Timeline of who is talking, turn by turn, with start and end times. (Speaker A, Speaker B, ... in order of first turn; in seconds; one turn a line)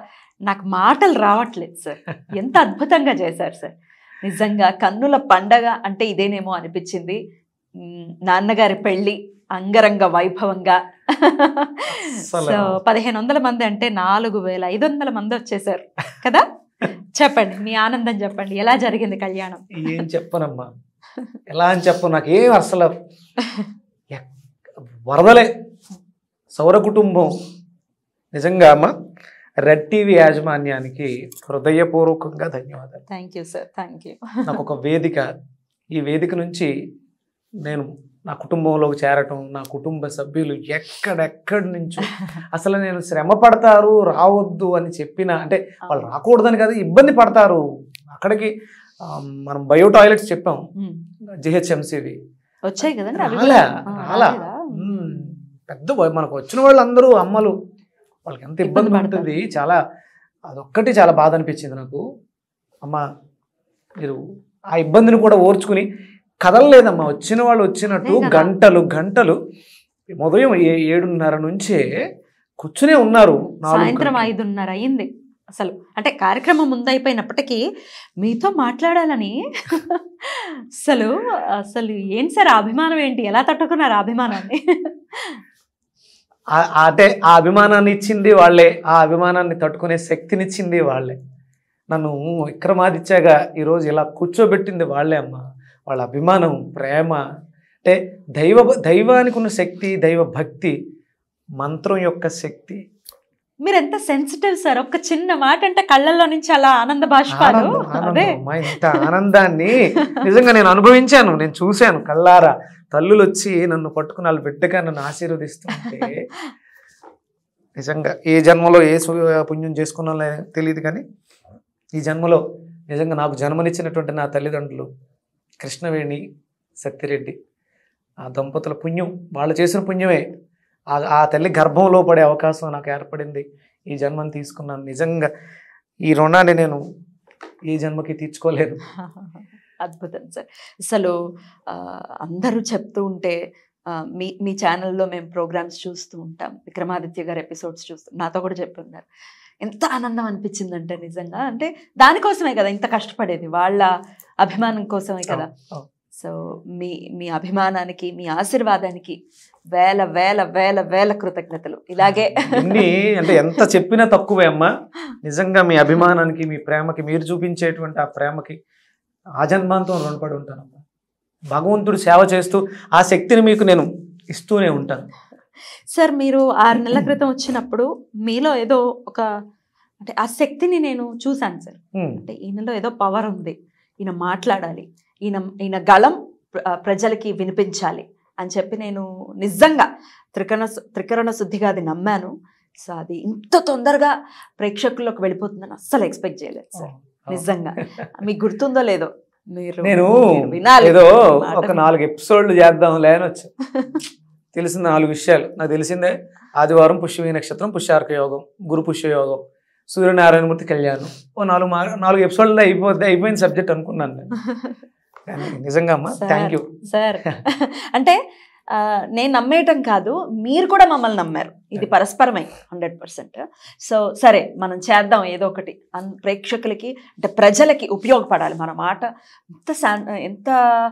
Speaker A: 0.5-7.2
Speaker A: 7.8-16.4
Speaker B: 11.9-12.8
Speaker A: 17.1-20.1
Speaker B: 19.7-20.7
Speaker B: 21.5-22.9
Speaker B: 25.1-25.5
Speaker B: 26.5-27.3
Speaker B: 28.3-28.9
Speaker B: 29.6-33.0
Speaker A: 33.1-34.6
Speaker B: 34.5-35.3
Speaker B: 35.9-36.7
Speaker B: 37.6-50.6
Speaker B: 51.4-52.2
Speaker A: 52.7-55.2
Speaker B: 53.1-57.5
Speaker B: 58.2-59.8
Speaker A: 58.6-59.3
Speaker B: 60.5-62.0
Speaker B: 64.8-65.9
Speaker B: 66.4-69.4
Speaker A: 67.9-68.5
Speaker B: 70.2-71.9
Speaker B: 72.6-74.3
Speaker A: 73.7-77.6
Speaker A: 78.2-81.1
Speaker A: 81.7-85.4
Speaker B: 86.5-91.2
Speaker B: 91.9-97.2
Speaker B: 97.8-100.8
Speaker B: 101.6-102.8
Speaker A: 103.6-109.1
Speaker B: 107.3-116.2
Speaker A: 115.8-116.1
Speaker B: 117.8-121.0
Speaker B: 121.9-124.9
Speaker B: 125.6-126.2
Speaker B: 126.8-127.3
Speaker B: 128.2-130.2
Speaker B: 130.9-135.3
Speaker B: 136.1-136.8
Speaker B: 137.7-138.8
Speaker A: 138.9-141.2
Speaker A: 141.7-143.4
Speaker A: 143.9-149.1
Speaker A: 149.6-153.9
Speaker A: 154.4-155.5
Speaker B: 155.3-155.9
Speaker A: 156.2-159.2
Speaker A: 159.7-163.4
Speaker B: 162.0-164.7
Speaker B: 165.2-168.6
Speaker B: 169.4-170.8
Speaker B: 171.5-175.1
Speaker A: 175.9-179.3
Speaker A: 180.0-192.3
Speaker B: 181.9-182.2
Speaker A: 192.8-201.8
Speaker B: 196.8-197.8
Speaker B: 199.8-203.5
Speaker A: 203.7-204.0
Speaker B: 204.5-214.3
Speaker B: 215.3-216.7
Speaker A: 216.2-218.2
Speaker A: 218.7-229.1
Speaker A: 229.6-230.6